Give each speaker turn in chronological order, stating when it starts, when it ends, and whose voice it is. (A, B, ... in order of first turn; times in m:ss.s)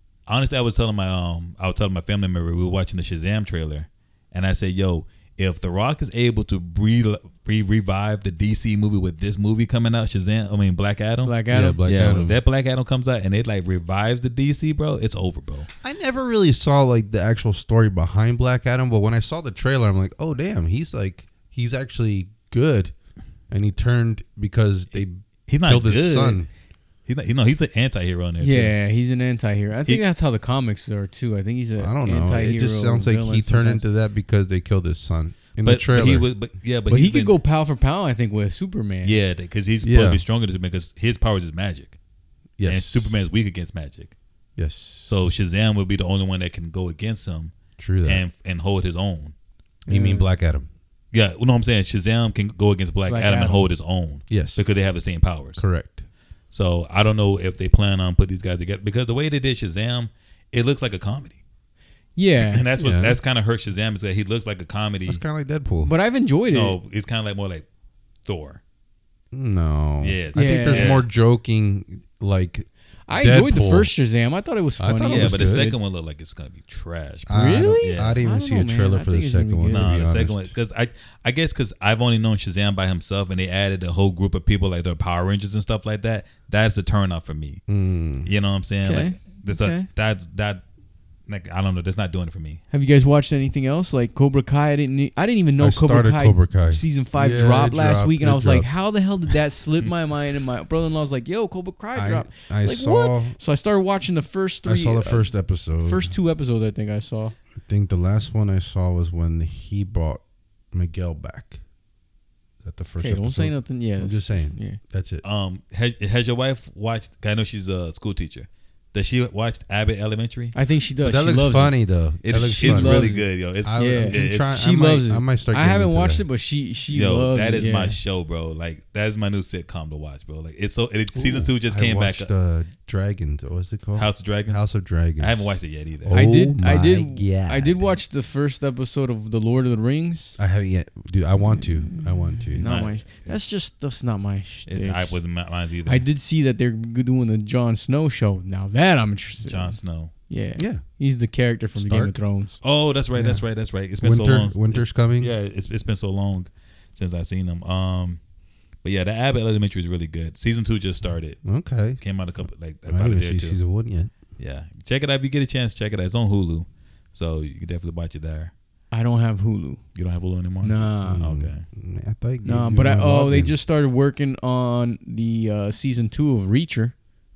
0:00.3-0:11.4 A
0:11.2-0:11.8 B
0:11.5-0:12.4 C
0:11.9-0:15.7 A
0:15.8-0:22.9 C
0:23.5-0:26.5 C
0:25.5-0:26.4 A
0:27.1-0:28.7 A
0:28.4-0:33.8 B
0:31.8-0:36.3 C
0:35.6-0:37.4 A
0:36.9-0:39.2 B
0:39.0-0:42.0 A
0:39.8-0:40.2 C
0:42.6-0:43.1 C
0:42.6-0:44.2 A
0:44.6-0:45.1 C
0:45.0-0:49.3 A
0:47.8-0:48.2 C
0:49.9-0:50.7 C
0:49.9-0:50.3 B
0:51.1-0:55.6 A
0:53.1-0:53.7 B
0:54.3-0:54.6 C
0:55.6-0:56.0 C
0:56.5-1:01.4 A
1:02.2-1:02.6 B
1:02.4-1:05.2 A
1:02.8-1:03.2 C
1:05.1-1:05.9 C
1:05.8-1:06.8 B
1:06.5-1:07.6 A
1:08.2-1:08.6 A
1:09.3-1:13.9 C
1:10.0-1:11.1 A
1:10.3-1:10.9 B
1:13.1-1:15.6 B
1:14.8-1:15.8 C
1:15.1-1:18.2 A
1:17.3-1:20.6 C
1:17.3-1:19.9 B
1:19.7-1:27.6 A
1:27.7-1:28.3 C
1:28.2-1:30.6 A
1:28.8-1:29.9 B
1:31.3-1:32.6 A
1:32.7-1:47.4 B
1:35.6-1:38.7 C
1:42.0-1:43.4 C
1:44.6-1:46.1 C
1:47.6-1:51.6 C
1:52.6-1:55.2 C
1:53.0-1:54.8 B
1:55.2-2:00.6 A
2:00.6-2:01.7 B
2:01.0-2:03.1 C
2:02.2-2:04.5 A
2:02.6-2:03.3 B
2:03.6-2:06.2 C
2:03.8-2:08.0 B
2:06.9-2:12.3 A
2:11.2-2:17.9 C
2:14.0-2:14.6 A
2:15.2-2:16.2 A
2:16.1-2:20.4 B
2:20.4-2:22.8 C
2:21.4-2:25.2 B
2:22.6-2:23.4 A
2:24.7-2:26.0 A
2:25.9-2:29.8 B
2:29.4-2:30.1 A
2:30.3-2:32.6 B
2:30.6-2:30.8 C
2:31.8-2:32.1 C
2:32.6-2:38.2 A
2:33.2-2:33.4 C
2:34.0-2:35.3 C
2:38.8-2:41.4 A
2:41.4-2:42.0 C
2:42.0-2:43.6 A
2:42.9-2:44.2 C
2:44.4-2:48.5 A
2:48.9-2:49.8 B
2:50.0-2:51.6 A
2:50.6-2:51.2 B
2:51.0-2:53.5 C
2:52.4-2:56.9 B